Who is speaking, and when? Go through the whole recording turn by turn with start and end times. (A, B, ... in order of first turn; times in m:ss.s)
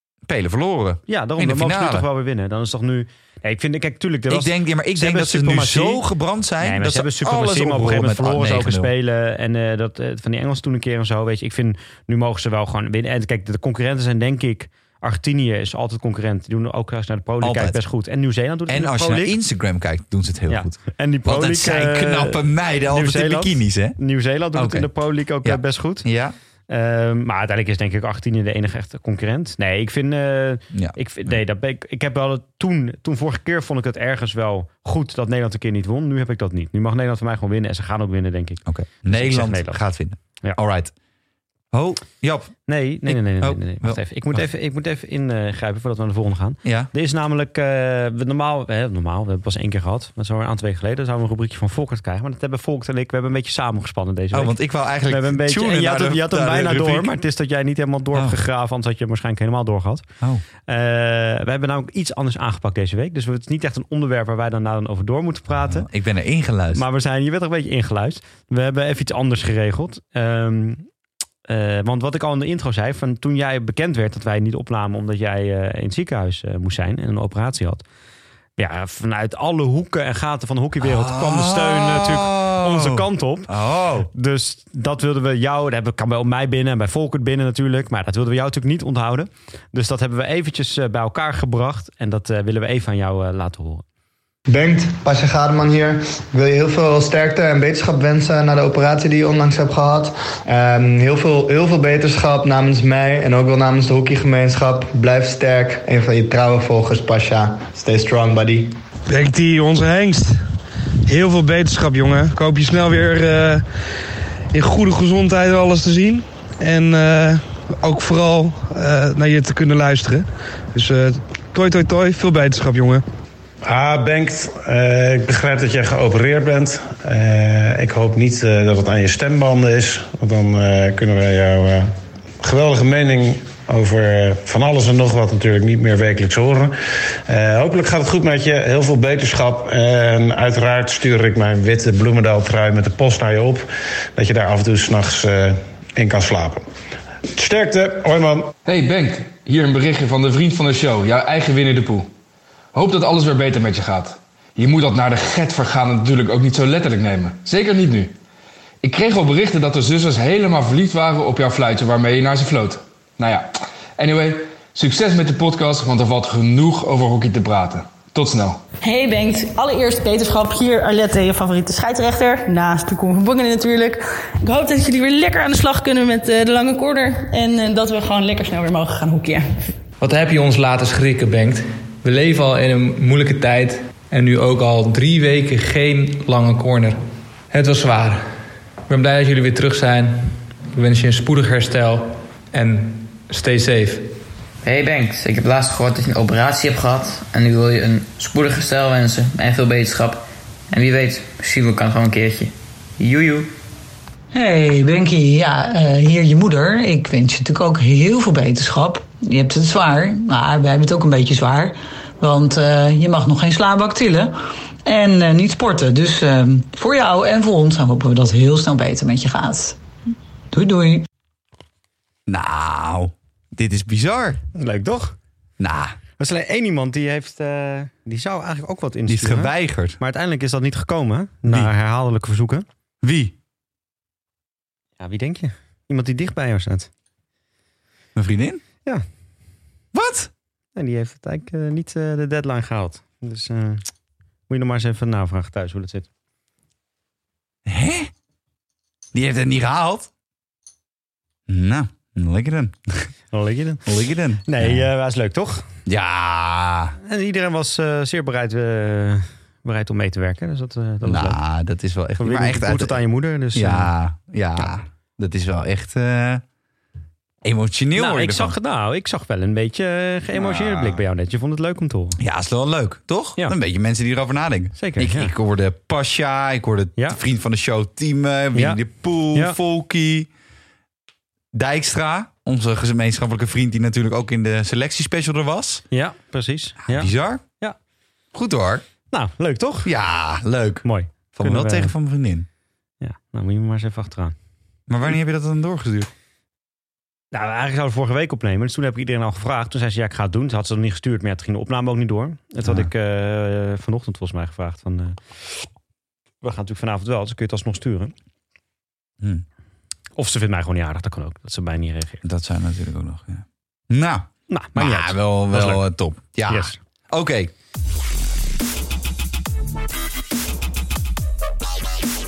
0:00.2-0:02.1 A
0:01.1-0:06.0 B
0:04.3-0:08.9 A
0:06.6-0:19.4 B
0:17.4-0:17.8 A
0:18.7-0:24.0 A
0:20.5-0:26.1 B
0:24.5-0:24.9 A
0:25.4-0:26.3 A
0:26.7-0:39.8 B
0:30.7-0:31.4 A
0:38.6-0:40.9 A
0:41.7-0:44.4 A
0:42.7-0:54.6 B
0:46.6-0:46.9 A
0:54.3-0:57.1 A
0:55.1-1:00.0 B
0:58.1-0:58.4 A
1:00.7-1:05.9 B
1:05.6-1:06.8 A
1:06.7-1:10.9 B
1:11.5-1:17.8 B
1:18.6-1:33.8 B
1:20.8-1:24.1 A
1:34.5-1:48.8 C
1:49.1-1:50.5 D
1:51.0-1:53.7 D
1:54.5-2:03.0 D
2:03.6-2:16.7 E
2:17.2-2:26.6 E
2:27.3-2:28.5 E
2:28.6-2:32.1 F
2:32.7-2:38.1 F
2:38.8-2:48.6 F
2:48.8-2:59.6 G
3:00.0-3:08.3 H
3:08.9-3:14.1 H
3:14.6-3:23.5 I
3:24.3-3:39.8 J
3:40.5-3:41.0 J
3:42.3-3:44.4 A
3:44.5-3:45.2 B
3:45.6-3:46.0 A
3:46.2-3:52.6 B
3:49.1-3:50.0 A
3:53.0-3:53.4 A
3:55.0-3:56.9 B
3:58.1-3:58.6 A
3:59.9-4:00.3 A
4:00.8-4:03.8 B
4:04.5-4:06.1 B
4:07.6-4:08.1 A
4:09.1-4:10.1 A
4:11.5-4:13.1 A
4:13.3-4:13.8 B
4:13.8-4:14.9 A
4:14.4-4:15.7 B
4:15.8-4:17.0 A
4:17.0-4:21.4 B
4:21.0-4:23.0 A
4:22.2-4:23.9 B
4:23.5-4:26.4 A
4:27.4-4:28.6 A
4:27.9-4:32.2 B
4:30.3-4:31.0 A
4:32.2-4:40.3 A
4:34.8-4:35.3 B
4:38.5-4:38.8 B
4:41.5-4:45.8 A
4:45.9-4:47.8 B
4:46.8-4:47.4 A
4:48.3-4:48.8 A
4:49.1-4:49.9 B
4:49.8-4:52.5 A
4:50.8-4:51.9 B
4:53.0-4:54.3 B
4:54.9-4:56.1 A
4:57.3-5:05.6 B
5:02.6-5:02.9 A
5:06.4-5:08.1 B
5:10.2-5:12.2 B
5:12.2-5:17.5 A
5:14.5-5:15.8 B
5:16.4-5:16.8 B